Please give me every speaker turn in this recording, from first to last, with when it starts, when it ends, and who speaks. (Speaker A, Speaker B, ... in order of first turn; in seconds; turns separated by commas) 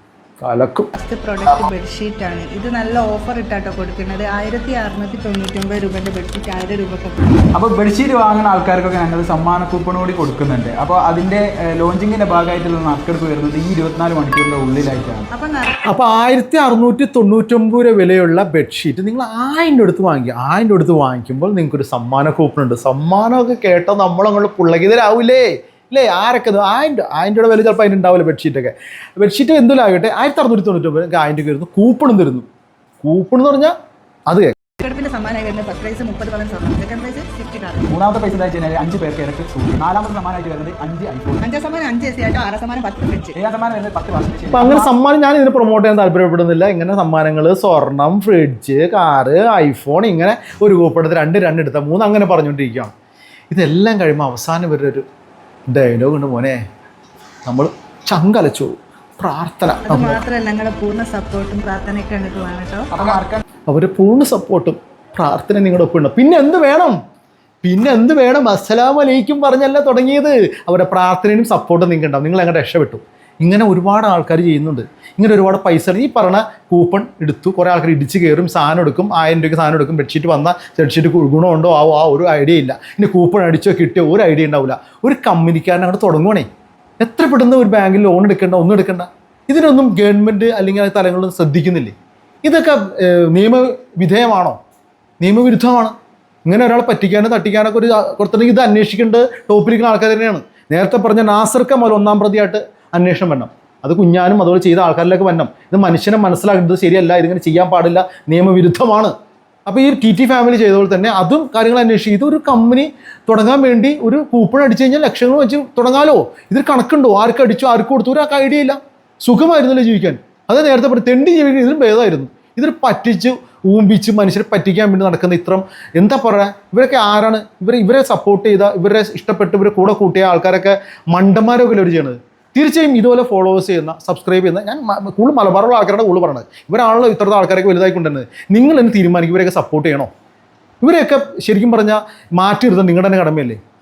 Speaker A: 0.4-0.9, Speaker B: 1.0-7.5, Speaker C: 7.5-15.3, Speaker B: 15.3-15.8, Speaker A: 15.9-32.5, Speaker A: 33.0-33.7, Speaker A: 34.3-34.5, Speaker B: 34.8-37.9, Speaker C: 37.9-41.5, Speaker B: 41.4-43.4, Speaker C: 43.4-44.9, Speaker A: 44.5-52.9, Speaker A: 53.5-55.0, Speaker A: 55.7-56.6, Speaker A: 57.5-60.2, Speaker B: 59.9-62.9, Speaker C: 62.9-63.4, Speaker A: 63.7-67.0, Speaker A: 67.6-86.5, Speaker A: 87.0-94.6, Speaker A: 95.2-96.0, Speaker A: 96.5-109.1, Speaker A: 109.7-140.1, Speaker A: 140.8-143.6